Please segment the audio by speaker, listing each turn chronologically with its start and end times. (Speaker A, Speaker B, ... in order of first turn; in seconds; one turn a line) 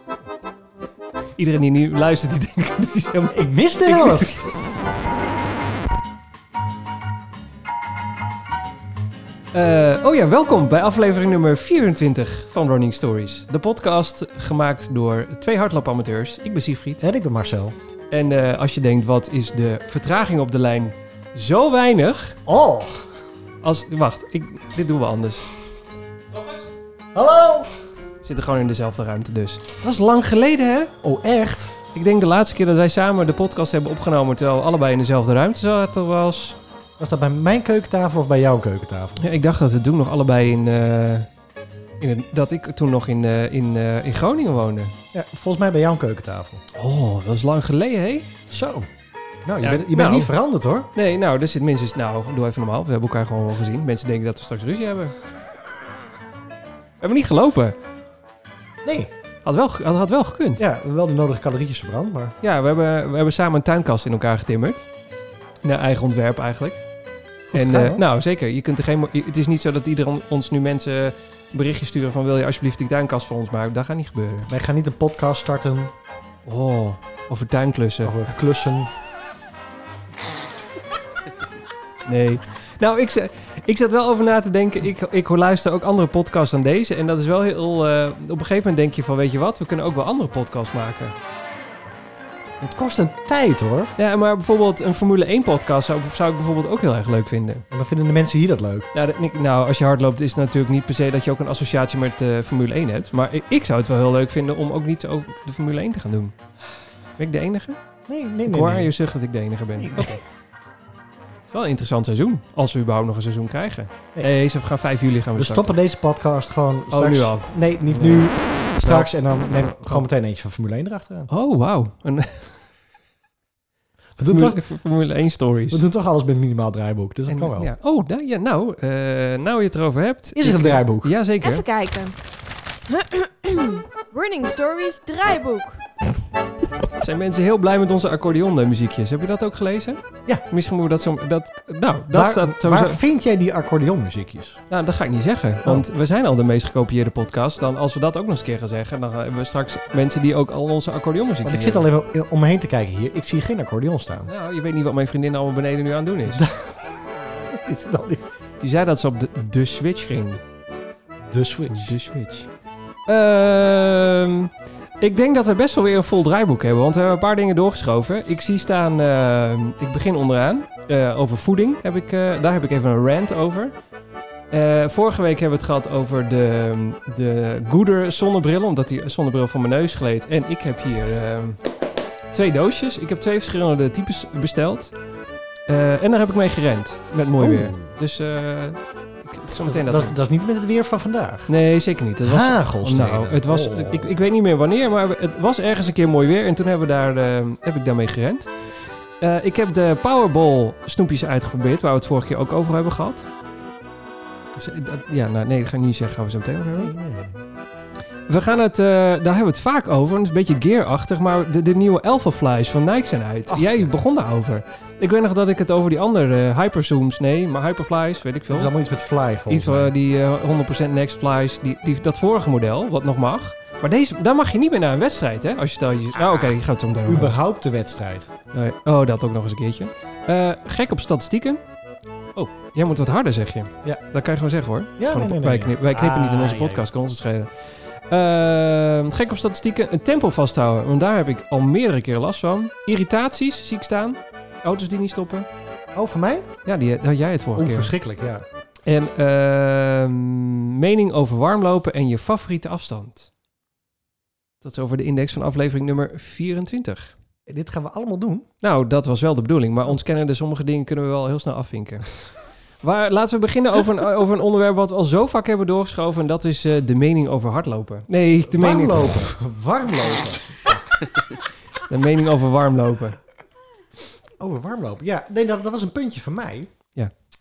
Speaker A: 1.4-4.5
Speaker B: 3.3-4.5
Speaker A: 9.5-17.0
Speaker B: 17.0-17.8
Speaker A: 18.1-22.4
Speaker B: 22.5-23.1
Speaker A: 23.6-25.4
Speaker A: 26.3-26.7
Speaker B: 27.1-27.7
Speaker A: 28.2-30.9
Speaker B: 31.0-31.8
Speaker A: 31.9-36.6
Speaker B: 37.0-39.2
Speaker A: 39.2-41.3
Speaker A: 42.0-44.9
Speaker B: 45.1-46.6
Speaker A: 46.7-48.3
Speaker B: 48.5-48.9
Speaker B: 49.5-50.9
Speaker A: 49.6-50.3
Speaker A: 51.0-55.1
Speaker A: 57.0-57.8
Speaker B: 58.8-59.1
Speaker A: 59.5-60.6
Speaker B: 60.6-62.4
Speaker A: 62.4-64.9
Speaker A: 65.6-66.8
Speaker B: 67.5-68.0
Speaker A: 67.5-74.5
Speaker B: 74.5-75.9
Speaker A: 76.5-78.3
Speaker B: 78.0-78.9
Speaker A: 82.1-91.2
Speaker B: 92.6-93.9
Speaker A: 94.0-97.7
Speaker B: 97.7-98.9
Speaker A: 98.9-106.3
Speaker A: 107.2-107.8
Speaker B: 108.1-108.9
Speaker A: 108.5-110.2
Speaker B: 109.8-110.2
Speaker A: 111.5-115.8
Speaker B: 115.4-121.3
Speaker A: 116.9-119.1
Speaker A: 121.3-122.5
Speaker B: 124.2-124.7
Speaker A: 124.3-125.8
Speaker B: 125.7-127.7
Speaker A: 127.3-131.7
Speaker B: 130.4-131.1
Speaker C: 131.4-132.2
Speaker C: 132.9-135.8
Speaker A: 137.0-143.0
Speaker B: 142.1-144.6
Speaker A: 144.7-151.9
Speaker B: 151.4-154.3
Speaker A: 154.3-156.5
Speaker B: 156.3-158.3
Speaker A: 158.6-160.4
Speaker B: 161.3-162.0
Speaker A: 161.7-162.5
Speaker A: 163.1-173.8
Speaker A: 174.5-181.6
Speaker A: 182.3-184.9
Speaker A: 185.7-190.2
Speaker B: 187.4-187.9
Speaker B: 189.6-191.5
Speaker A: 191.5-198.5
Speaker B: 192.2-194.1
Speaker A: 199.2-203.3
Speaker A: 204.6-206.9
Speaker B: 206.7-207.4
Speaker A: 208.3-218.7
Speaker B: 213.5-213.9
Speaker B: 218.5-219.9
Speaker A: 219.5-227.3
Speaker B: 226.2-226.6
Speaker B: 227.1-228.3
Speaker A: 228.5-231.6
Speaker A: 232.4-237.5
Speaker B: 235.0-236.9
Speaker A: 238.1-245.5
Speaker B: 245.9-246.5
Speaker A: 246.7-247.9
Speaker B: 247.6-248.5
Speaker A: 248.9-253.3
Speaker A: 254.6-257.1
Speaker B: 257.5-258.5
Speaker A: 258.6-262.1
Speaker A: 262.8-269.3
Speaker B: 268.4-270.9
Speaker A: 271.9-273.2
Speaker B: 274.4-276.7